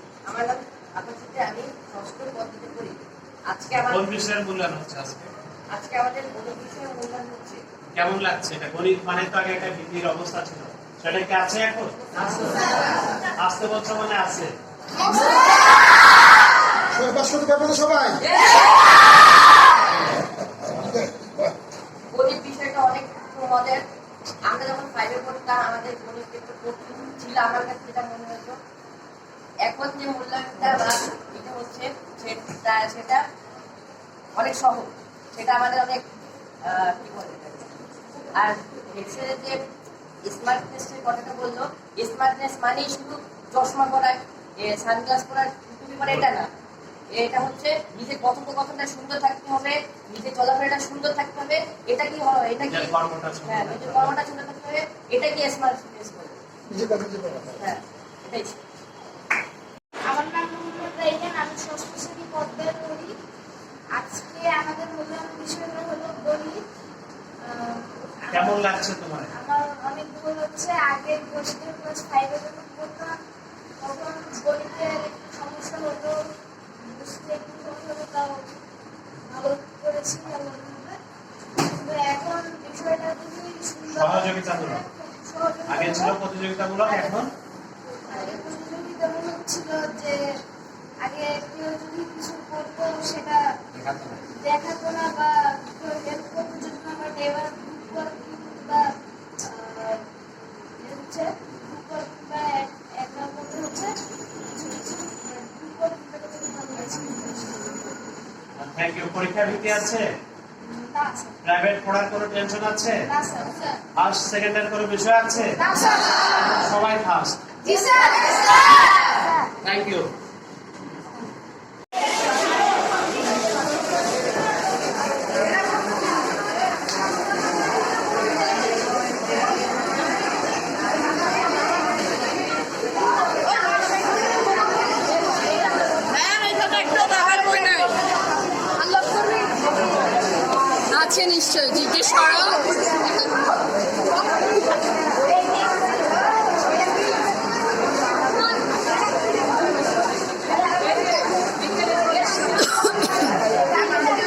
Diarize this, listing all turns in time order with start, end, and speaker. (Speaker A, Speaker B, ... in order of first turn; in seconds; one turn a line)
Speaker A: 0.3-3.0
Speaker A: 3.5-4.0
Speaker B: 3.9-5.3
Speaker A: 5.7-7.6
Speaker B: 7.9-12.7
Speaker B: 13.4-14.5
Speaker C: 16.9-18.2
Speaker A: 18.2-18.7
Speaker A: 22.1-23.8
Speaker A: 24.4-28.6
Speaker A: 29.6-33.2
Speaker A: 34.4-36.0
Speaker A: 36.6-37.7
Speaker A: 38.4-39.6
Speaker A: 40.3-46.5
Speaker A: 47.1-52.9
Speaker B: 52.6-54.1
Speaker A: 53.5-56.4
Speaker C: 56.7-57.5
Speaker A: 57.4-58.6
Speaker D: 60.0-63.2
Speaker D: 63.9-66.6
Speaker D: 67.4-68.7
Speaker B: 68.3-69.3
Speaker D: 69.3-73.2
Speaker D: 73.8-78.5
Speaker D: 79.3-81.0
Speaker D: 81.6-86.2
Speaker B: 83.9-84.8
Speaker B: 85.7-87.3
Speaker D: 86.9-87.2
Speaker D: 88.1-90.2
Speaker D: 91.0-100.0
Speaker D: 100.8-107.9
Speaker B: 108.5-110.1
Speaker D: 110.6-111.4
Speaker B: 111.4-113.1
Speaker D: 113.0-113.8
Speaker B: 114.0-115.6
Speaker D: 115.6-116.5
Speaker B: 116.5-117.4
Speaker D: 117.6-119.5
Speaker B: 119.6-120.1
Speaker E: 136.2-137.9
Speaker A: 136.7-137.9
Speaker A: 138.8-139.5
Speaker E: 138.8-139.3
Speaker E: 140.9-143.4
Speaker E: 152.6-153.2